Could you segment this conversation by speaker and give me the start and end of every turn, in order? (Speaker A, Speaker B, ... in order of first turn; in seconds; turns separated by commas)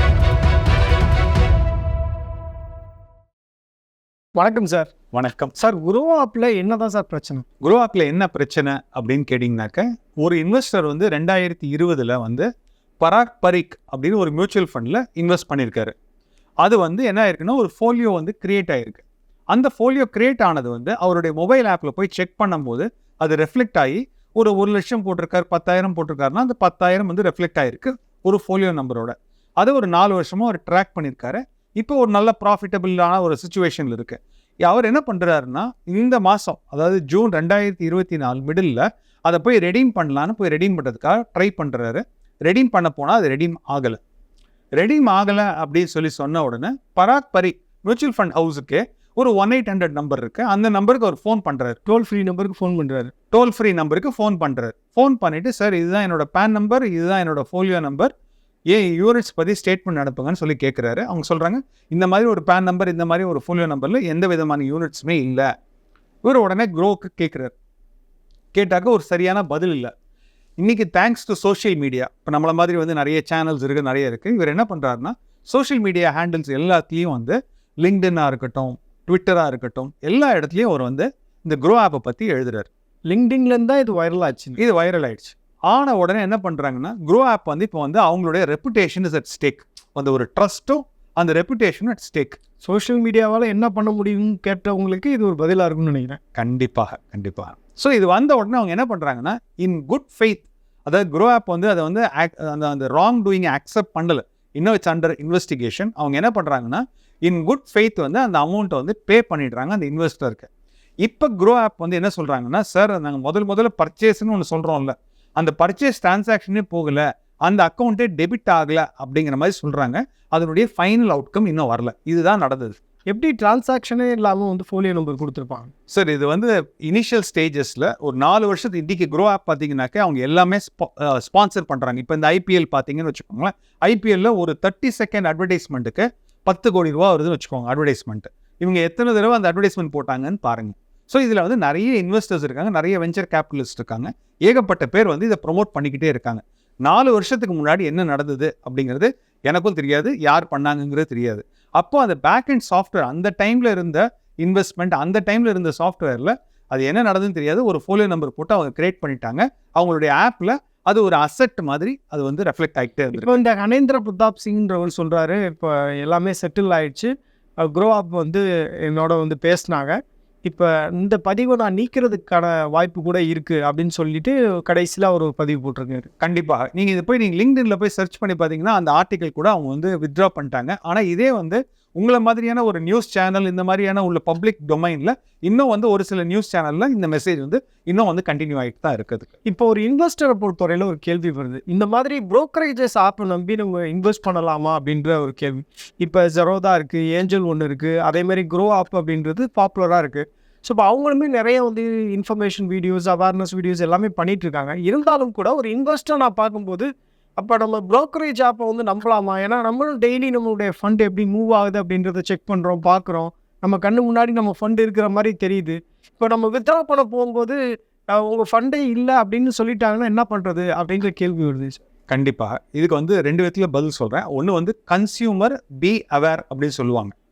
Speaker A: 4.4-4.9, Speaker B: 5.1-5.5, Speaker A: 5.6-7.5, Speaker B: 7.6-12.5, Speaker B: 13.0-15.9, Speaker B: 16.6-44.0, Speaker B: 44.8-51.8, Speaker A: 51.9-53.1, Speaker B: 53.3-58.1, Speaker B: 58.7-65.5, Speaker B: 66.2-67.5, Speaker B: 68.5-69.9, Speaker B: 70.6-82.7, Speaker A: 83.1-84.6, Speaker B: 84.6-92.4, Speaker A: 92.6-96.2, Speaker B: 96.3-110.5, Speaker B: 111.0-122.7, Speaker A: 123.1-125.7, Speaker B: 125.9-163.3, Speaker A: 163.2-167.1, Speaker A: 167.6-176.1, Speaker B: 176.2-189.3, Speaker A: 189.5-217.6, Speaker A: 218.1-221.8, Speaker B: 222.1-227.1